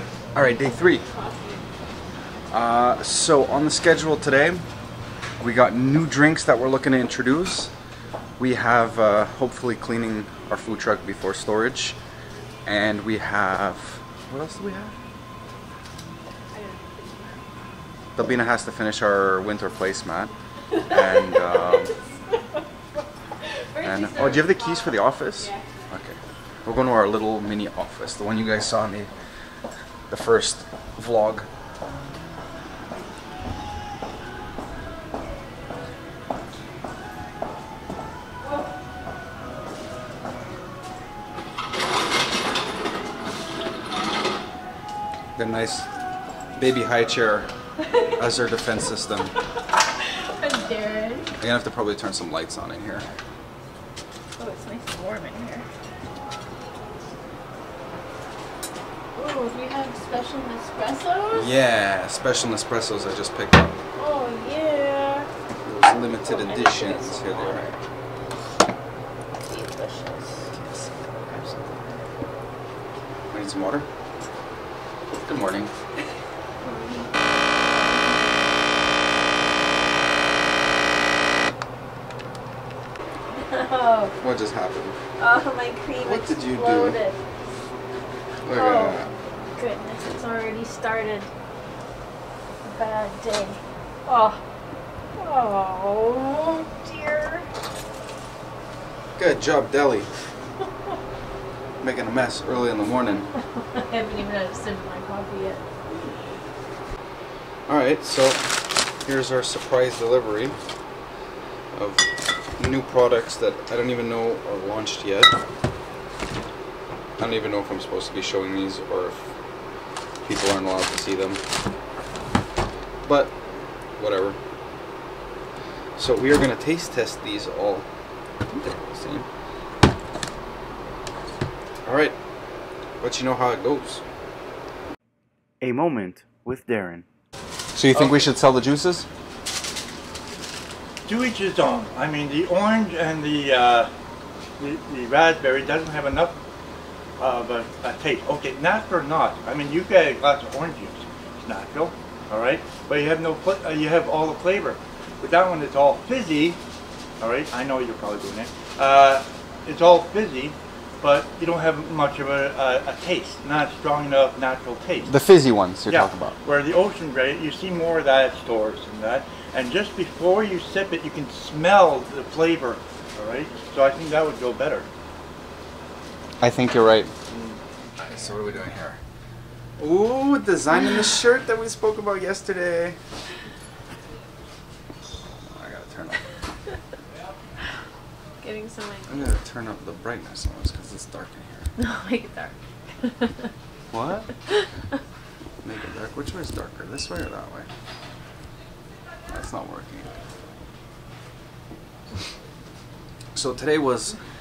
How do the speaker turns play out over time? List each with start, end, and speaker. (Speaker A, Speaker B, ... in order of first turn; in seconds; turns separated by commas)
Speaker A: 0.3-1.1, Speaker B: 0.4-1.6, Speaker A: 2.5-4.6, Speaker A: 5.4-7.7, Speaker A: 8.4-12.0, Speaker A: 12.7-14.9, Speaker B: 16.5-17.4, Speaker A: 18.1-20.3, Speaker A: 20.9-21.9, Speaker B: 20.9-21.8, Speaker B: 23.7-25.6, Speaker A: 23.8-29.1, Speaker A: 30.1-31.5, Speaker A: 45.4-45.9, Speaker A: 46.5-47.5, Speaker A: 48.1-49.3, Speaker B: 50.4-51.3, Speaker A: 51.4-53.1, Speaker B: 54.4-55.6, Speaker B: 59.1-61.5, Speaker A: 61.3-63.8, Speaker B: 64.0-65.3, Speaker A: 65.6-67.7, Speaker B: 65.9-67.7, Speaker B: 69.4-70.5, Speaker A: 70.5-71.9, Speaker A: 73.3-73.9, Speaker A: 75.1-75.7, Speaker B: 76.6-78.4, Speaker B: 83.3-84.1, Speaker A: 84.2-85.0, Speaker B: 85.2-87.2, Speaker A: 86.0-87.0, Speaker A: 88.4-89.1, Speaker B: 88.5-89.0, Speaker B: 89.6-91.3, Speaker B: 92.6-94.4, Speaker B: 95.2-97.5, Speaker A: 99.2-100.1, Speaker A: 101.8-103.3, Speaker B: 103.7-105.6, Speaker A: 107.7-110.5, Speaker A: 111.7-112.1, Speaker A: 112.6-115.3, Speaker A: 117.2-119.2, Speaker A: 120.2-121.4, Speaker A: 123.0-123.3, Speaker A: 124.0-124.4, Speaker A: 126.0-127.9, Speaker A: 128.8-129.3, Speaker A: 131.8-132.2, Speaker A: 133.0-134.0, Speaker A: 135.6-137.0, Speaker A: 137.7-139.1, Speaker C: 137.9-138.2, Speaker C: 141.0-143.9, Speaker C: 144.6-146.4, Speaker C: 147.2-156.6, Speaker C: 157.2-165.1, Speaker A: 165.1-166.4, Speaker C: 165.9-174.9, Speaker A: 176.4-177.1, Speaker C: 177.3-177.6, Speaker A: 178.0-179.0, Speaker A: 179.8-183.0, Speaker A: 185.4-186.3, Speaker B: 188.4-189.4, Speaker A: 189.1-191.7, Speaker B: 191.8-193.5, Speaker A: 193.9-194.3, Speaker A: 195.6-197.7, Speaker A: 199.3-200.1, Speaker A: 203.3-204.2